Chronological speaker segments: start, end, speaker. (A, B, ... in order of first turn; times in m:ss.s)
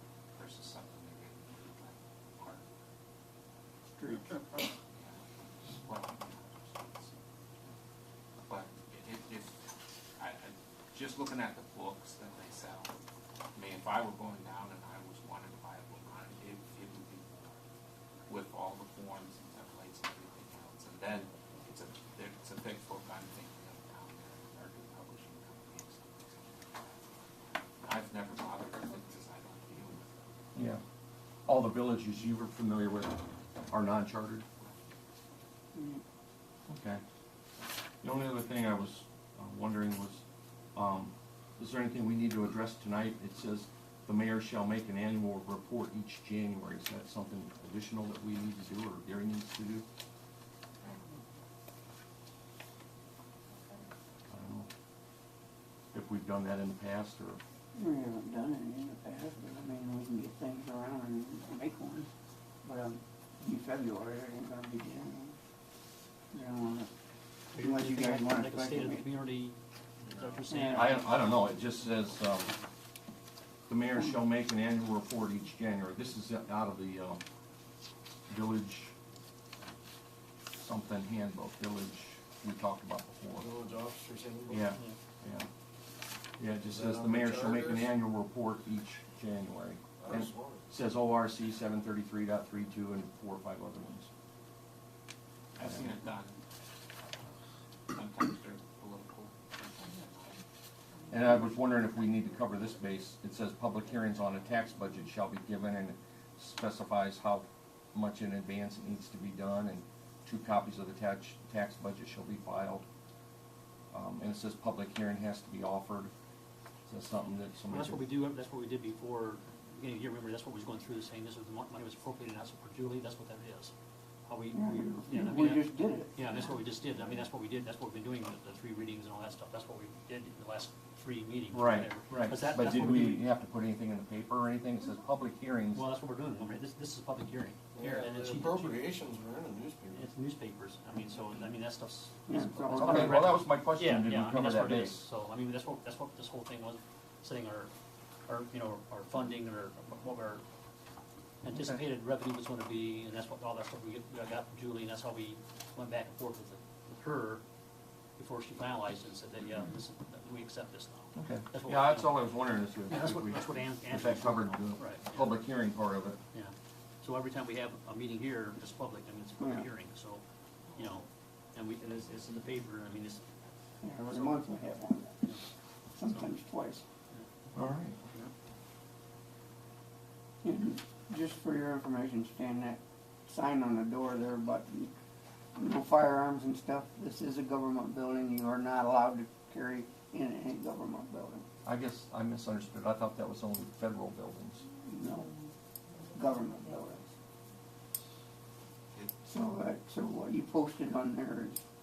0:00.3-0:02.9 A
0:04.0-0:04.6 B
0:04.9-0:07.7 A
0:08.5-0:09.6 A
0:10.2-0:12.9 A
0:13.5-0:17.6 A
0:18.3-0:30.4 A
0:30.5-0:30.8 C
0:31.4-0:34.4 C
0:35.7-0:36.0 B
0:36.7-0:37.0 C
0:38.0-0:40.2 C
0:40.7-0:49.8 C
0:54.3-0:54.7 C
0:55.9-0:57.4 C
0:57.7-1:02.1 B
1:02.6-1:05.4 B
1:06.3-1:06.9 B
1:07.5-1:11.3 D
1:07.6-1:09.0 B
1:10.5-1:11.0 B
1:10.7-1:12.5 C
1:13.7-1:17.2 C
1:18.3-1:18.9 C
1:20.6-1:23.5 C
1:23.4-1:24.6 E
1:24.5-1:25.5 C
1:26.4-1:34.1 C
1:26.6-1:27.9 E
1:30.0-1:30.6 E
1:35.6-1:36.4 A
1:37.9-1:40.4 A
1:41.1-1:52.8 C
1:53.9-1:56.1 C
1:56.8-1:58.0 C
1:57.7-2:03.7 D
2:04.2-2:13.2 D
2:04.5-2:06.1 B
2:11.5-2:15.9 C
2:15.7-2:18.8 D
2:17.8-2:20.1 E
2:19.9-2:27.7 D
2:22.3-2:23.3 B
2:22.7-2:25.0 C
2:28.3-2:30.4 D
2:31.4-2:37.4 D
2:31.4-2:31.8 C
2:38.2-2:42.2 D
2:41.1-2:46.2 C
2:42.9-2:45.4 D
2:46.3-2:50.2 D
2:49.4-2:49.6 B
2:50.7-2:53.2 D
2:53.8-2:55.2 B
2:54.1-2:54.4 D
2:56.0-2:56.8 B
2:57.5-2:58.0 C
3:00.4-3:04.9 B
3:05.5-3:11.4 B
3:11.6-3:14.6 C
3:14.8-3:15.3 B
3:16.1-3:17.1 B
3:19.2-3:21.6 B